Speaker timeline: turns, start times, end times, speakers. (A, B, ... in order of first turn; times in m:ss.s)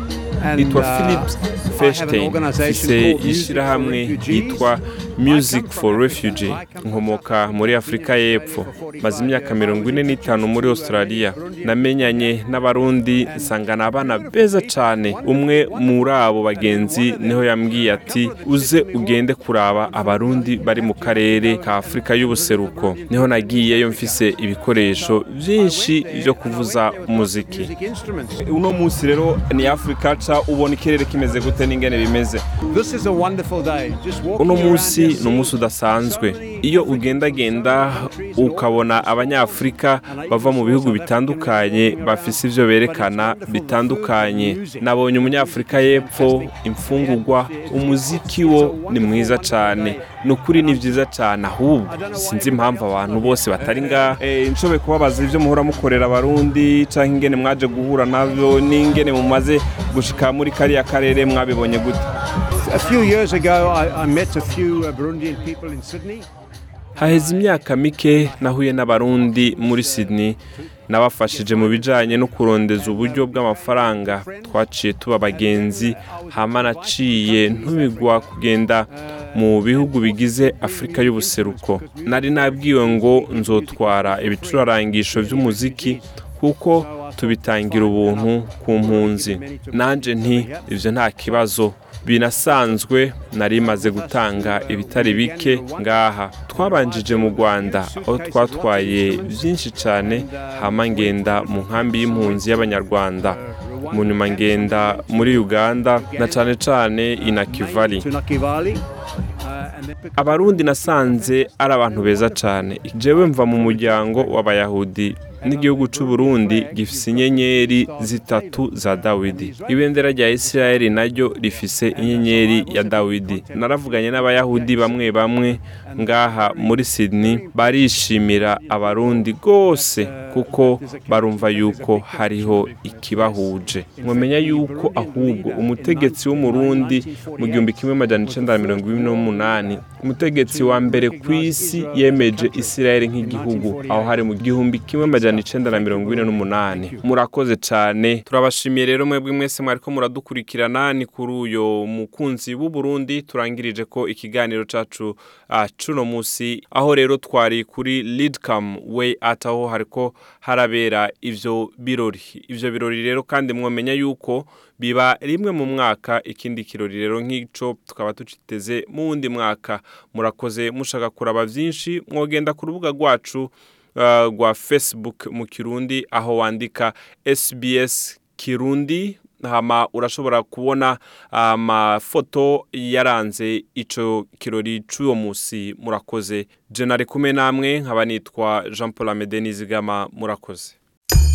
0:00.4-0:28.4 A
0:00.6-0:27.7 B
0:28.4-0:32.6 B
0:32.6-0:51.0 A
0:34.4-1:02.1 B
0:51.9-0:54.2 A
1:02.6-1:06.3 A
1:07.0-1:26.1 A
1:07.0-1:48.1 B
1:26.6-1:31.5 A
1:32.5-1:32.8 A
1:33.5-1:46.6 A
1:47.2-1:48.8 A
1:49.4-1:54.7 A
1:50.2-3:10.8 B
1:55.4-2:19.9 A
2:20.4-2:27.1 A